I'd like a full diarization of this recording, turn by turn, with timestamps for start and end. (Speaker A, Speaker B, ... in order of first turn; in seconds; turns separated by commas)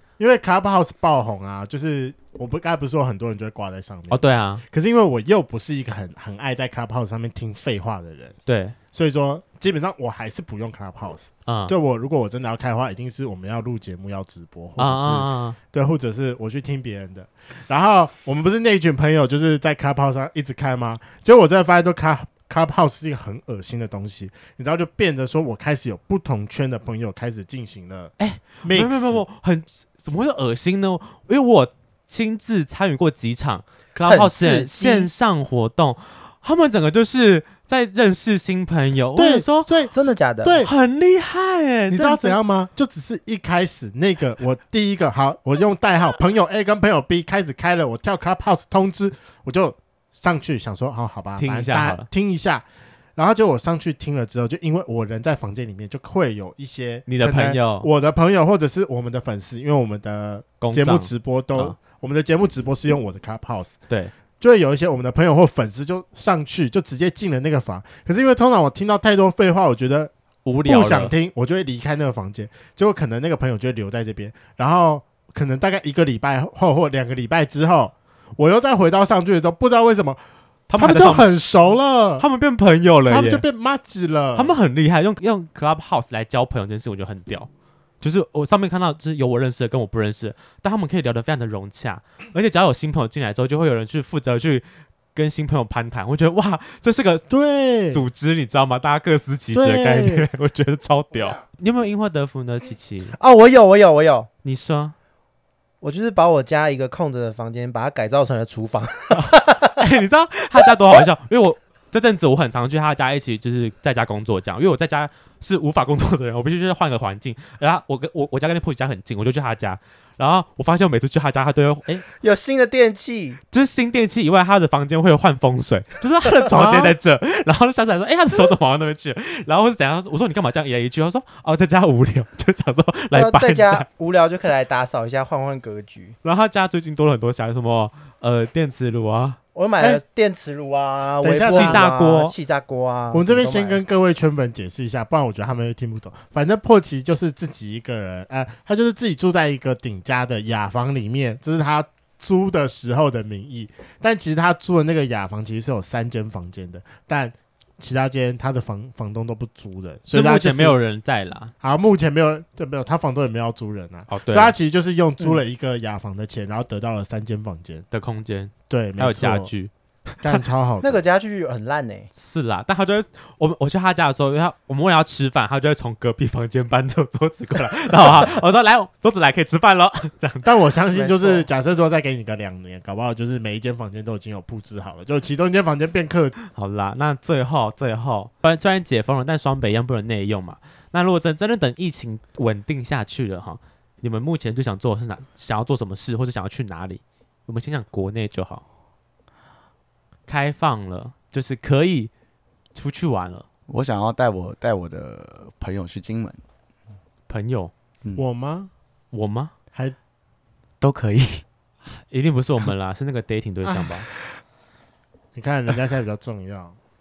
Speaker A: 0.2-8.4, Speaker B: 4.1-4.6, Speaker B: 8.5-8.8, Speaker A: 8.9-29.2, Speaker B: 11.5-11.7, Speaker B: 14.8-15.6, Speaker B: 28.2-39.9, Speaker C: 34.1-35.1, Speaker A: 39.2-40.7, Speaker C: 39.9-40.6, Speaker B: 40.6-42.4, Speaker A: 41.9-52.6, Speaker B: 51.4-52.1, Speaker A: 53.2-63.8, Speaker B: 57.1-57.9, Speaker B: 60.6-61.8, Speaker A: 64.4-70.1, Speaker B: 70.5-71.1, Speaker A: 70.7-80.2, Speaker B: 80.7-81.3, Speaker A: 80.8-82.3, Speaker B: 82.2-83.4, Speaker A: 83.1-84.5, Speaker B: 84.3-87.5, Speaker B: 88.0-97.3, Speaker A: 97.3-98.0, Speaker B: 97.9-103.2, Speaker A: 99.5-100.3, Speaker C: 103.2-104.3, Speaker B: 104.4-105.0, Speaker C: 105.8-109.8, Speaker B: 109.2-122.0, Speaker C: 122.2-123.4, Speaker B: 123.5-133.9, Speaker A: 126.5-127.0, Speaker C: 133.1-136.2, Speaker B: 136.2-139.4, Speaker C: 139.6-143.8, Speaker A: 141.2-141.8, Speaker B: 141.5-142.3, Speaker A: 143.1-160.8, Speaker B: 160.1-161.5, Speaker A: 161.6-167.9, Speaker B: 164.1-164.6, Speaker B: 167.9-169.7, Speaker A: 168.7-169.5, Speaker A: 170.2-171.0, Speaker C: 170.8-172.1, Speaker B: 172.2-180.5, Speaker A: 180.4-186.4, Speaker C: 180.9-181.5, Speaker B: 186.4-198.6, Speaker B: 200.3-202.1, Speaker B: 202.8-203.5, Speaker D: 203.7-206.4, Speaker B: 207.3-207.7, Speaker A: 208.2-208.7, Speaker B: 209.1-209.5, Speaker D: 210.8-211.4, Speaker B: 211.9-214.1, Speaker A: 215.3-216.8